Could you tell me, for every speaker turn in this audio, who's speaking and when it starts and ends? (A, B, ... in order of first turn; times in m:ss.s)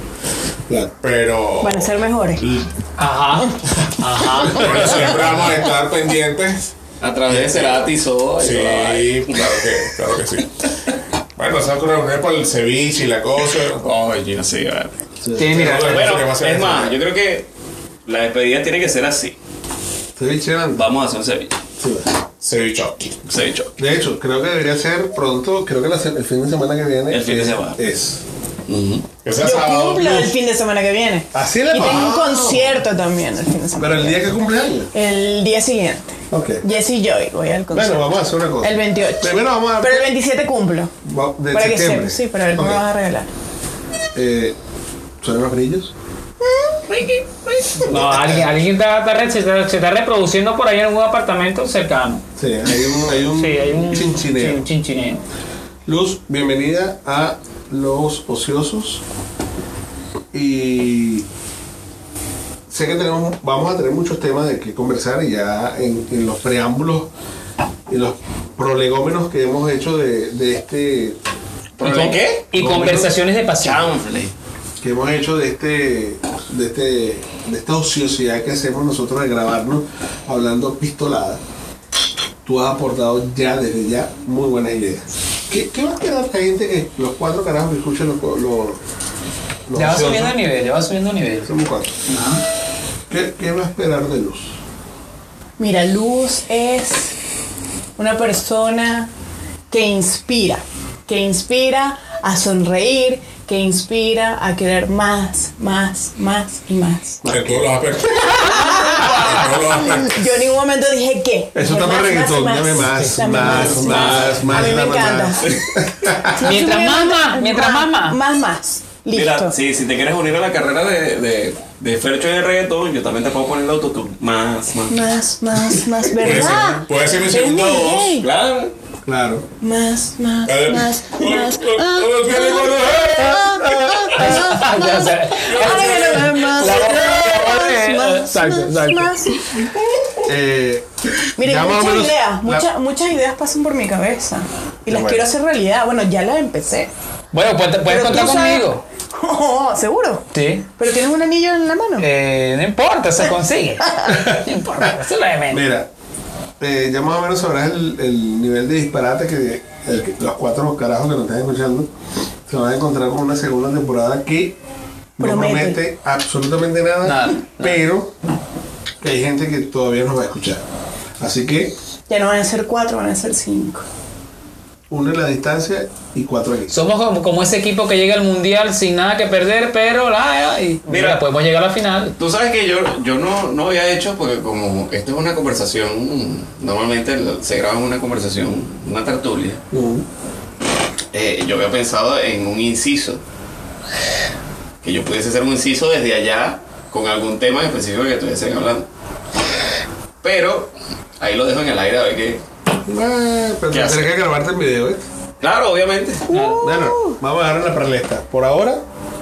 0:01.0-0:02.7 A
0:01.6-0:02.4 B
0:03.0-0:05.1 C
0:03.8-0:06.7 A
0:07.0-0:09.8 D
0:07.3-0:07.9 A
0:08.4-0:10.5 A
0:11.4-0:13.9 A
0:13.6-0:15.0 D
0:15.2-0:15.8 E
0:15.4-0:16.3 C
0:15.5-0:17.0 A
0:15.8-0:17.5 D
0:18.1-0:19.4 D
0:20.2-0:20.9 E
0:20.8-0:21.6 D
0:21.8-0:22.1 E
0:22.4-0:23.2 A
0:23.3-0:23.7 D
0:23.8-0:28.2 E
0:27.1-0:27.8 D
0:28.7-0:29.1 D
0:29.2-0:30.3 A
0:29.4-0:34.2 B
0:31.3-0:32.8 E
0:33.8-0:34.9 E
0:34.9-0:38.1 B
0:36.3-0:36.6 E
0:37.7-0:40.1 E
0:38.6-0:40.9 B
0:41.0-0:42.8 E
0:41.5-0:43.3 B
0:44.2-0:44.6 E
0:45.2-0:45.9 E
0:46.9-0:52.2 C
0:47.9-0:48.4 A
0:52.4-0:54.6 E
0:53.2-0:55.2 C
0:55.8-0:59.0 E
1:00.3-1:01.3 E
1:02.7-1:07.1 E
1:07.9-1:11.2 E
1:11.8-1:13.1 D
1:11.8-1:13.8 C
1:12.6-1:13.1 E
1:13.6-1:14.3 D
1:14.8-1:21.4 E
1:22.4-1:28.8 E
1:29.7-1:30.4 E
1:29.7-1:31.5 C
1:31.5-1:32.0 E
1:32.1-1:32.4 C
1:33.1-1:34.6 E
1:35.6-1:37.2 B
1:38.0-1:39.1 B
1:39.7-1:47.2 B
1:47.2-1:47.7 E
1:47.3-1:50.2 A
1:48.5-1:55.4 B
1:51.6-1:56.4 E
1:52.9-1:53.2 C
1:56.3-1:59.5 B
1:56.4-1:58.2 C
1:59.1-2:05.1 D
2:04.9-2:08.3 B
2:06.2-2:08.2 A
2:08.2-2:08.7 D
2:09.0-2:09.5 E
2:09.6-2:19.8 B
2:10.5-2:13.7 A
2:13.6-2:14.3 E
2:14.1-2:19.1 C
2:15.4-2:16.6 A
2:20.2-2:20.9 E
2:21.4-2:26.9 B
2:21.4-2:22.7 E
2:24.9-2:25.3 E
2:27.3-2:28.8 C
2:27.9-2:32.0 B
2:30.3-2:30.7 C
2:32.0-2:35.6 C
2:33.8-2:34.2 B
2:34.1-2:34.9 E
2:35.5-2:35.9 E
2:36.6-2:41.9 E
2:42.5-2:44.6 E
2:45.2-2:48.1 E
2:45.2-2:45.8 B
2:47.0-2:47.8 C
2:49.0-2:50.6 E
2:51.2-2:51.8 E
2:52.1-2:53.8 B
2:54.9-2:56.8 E
2:56.7-3:02.2 C
3:00.9-3:01.2 D
3:02.2-3:09.6 D
3:09.7-3:10.1 E
3:11.1-3:13.2 D
3:14.8-3:18.9 D
3:20.2-3:22.4 D
3:22.9-3:25.1 E
3:23.7-3:24.1 D
3:25.4-3:26.2 D
3:26.3-3:27.2 B
3:26.3-3:26.6 C
3:26.6-3:28.8 E